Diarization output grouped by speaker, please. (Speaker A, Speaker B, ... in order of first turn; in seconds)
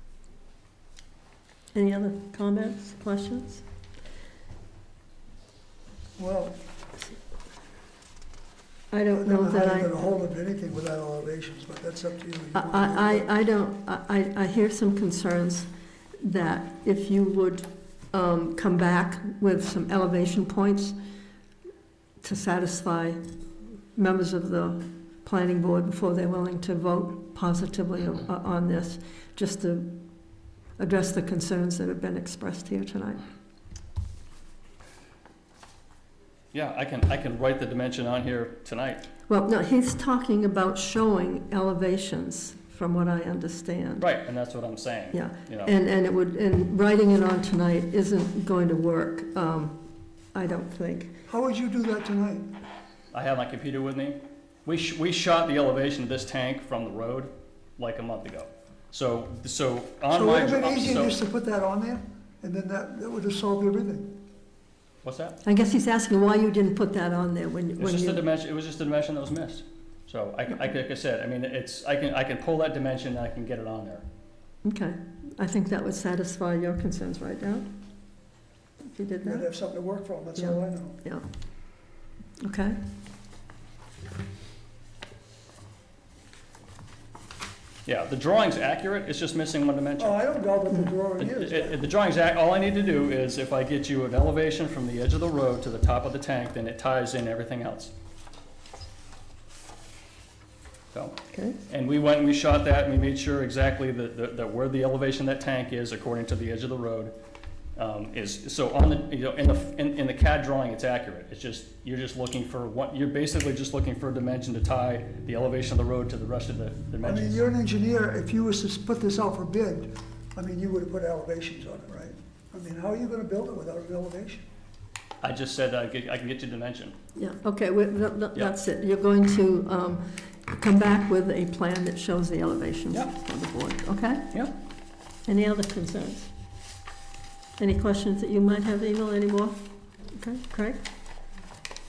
Speaker A: 1.7-3.6, 8.9-10.1, 12.5-15.7, 16.2-20.9, 22.2-23.2, 23.9-30.0, 30.8-33.2, 39.3-44.1, 45.1-51.2, 65.4-68.2, 74.6-77.7, 78.9-79.5, 80.3-81.2, 82.4-82.8, 101.3-101.6, 127.2-134.3, 135.2-136.3, 137.6-140.9
Speaker B: 6.2-6.6, 9.1-13.2, 51.3-52.5, 60.1-64.2, 79.2-81.0, 90.0-91.8, 117.0-124.4
Speaker C: 36.5-39.0, 44.0-45.7, 53.1-61.2, 65.0-65.4, 67.8-74.0, 87.8-90.2, 91.2-97.9, 101.7-107.1, 107.8-117.4, 125.2-126.9